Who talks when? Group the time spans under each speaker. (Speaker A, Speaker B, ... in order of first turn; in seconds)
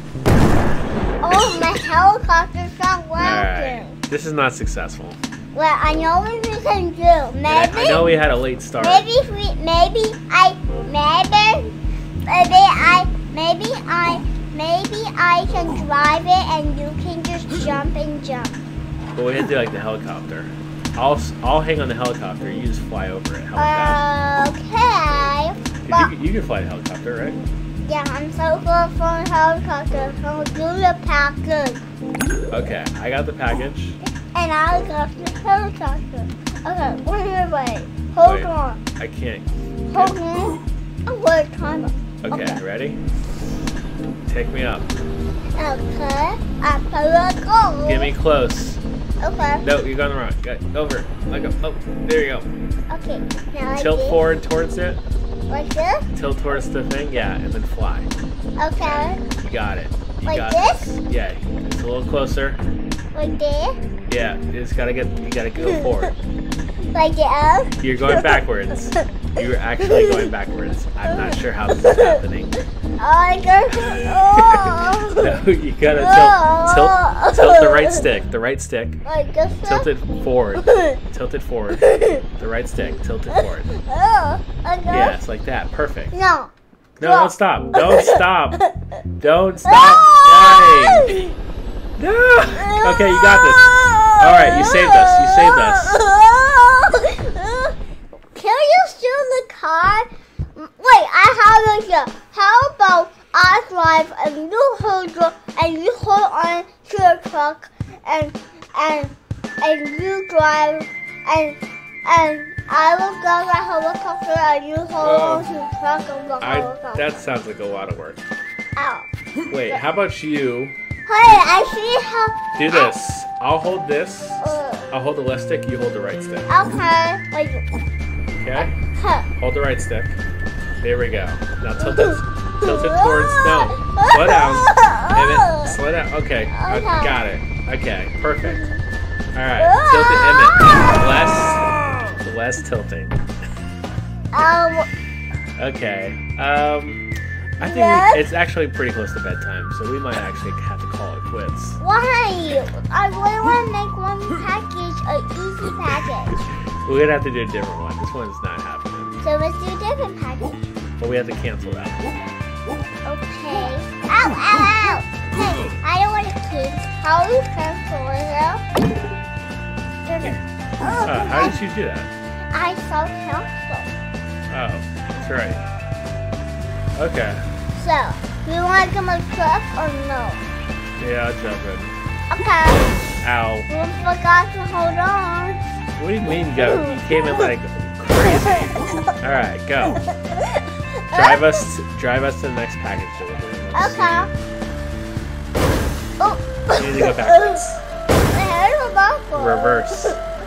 Speaker A: 1.2-4.0, 5.5-8.2, 8.8-11.7, 12.3-18.6, 23.6-26.1, 27.8-31.8, 34.0-38.8, 39.9-42.6, 45.6-48.1, 49.2-49.6, 52.9-54.3, 55.5-56.1, 58.6-59.2, 60.2-60.9, 63.1-63.8, 66.9-68.4, 69.8-70.3, 71.0-72.2, 73.0-75.4, 76.0-78.0, 79.0-79.9, 80.6-81.0, 81.8-82.2, 83.3-85.2, 86.1-88.8, 89.7-91.3, 92.5-97.8, 98.3-117.2, 118.8-119.1, 121.1-122.9, 124.4-124.9, 126.5-127.7, 128.6-129.3, 131.8-135.8, 136.5-137.2, 138.4-138.8, 139.6-141.3, 144.3-144.9, 147.6-148.2, 151.8-156.4, 159.2-160.7, 163.1-168.6, 170.1-171.6, 172.5-173.9, 177.7-180.4, 182.3-182.9, 183.7-185.6, 186.6-187.4, 188.2-188.8, 190.0-191.6, 193.7-194.3, 196.2-197.6, 198.3-200.2
Speaker B: 3.2-5.2, 7.5-9.1, 19.2-24.0, 25.9-27.4, 32.5-34.0, 38.2-40.2, 42.2-43.0, 44.3-44.9, 47.9-48.8, 49.6-52.5, 53.7-55.0, 56.1-58.1, 58.8-62.6, 64.1-66.2, 67.8-72.6, 73.7-79.0, 79.6-83.7, 84.9-86.1, 87.0-88.6, 89.2-91.3, 92.0-96.0, 115.0-115.5, 116.4-118.2, 119.5-120.8, 122.5-126.5, 128.4-128.8, 129.4-130.2, 130.8-138.7, 139.3-143.2, 145.6-147.1, 147.6-151.8, 156.8-159.2, 161.0-162.0, 171.0-172.1, 174.5-175.6, 176.9-177.4, 181.0-181.9, 183.2-183.7, 186.0-190.0, 191.1-194.3, 196.7-197.8, 199.3-200.2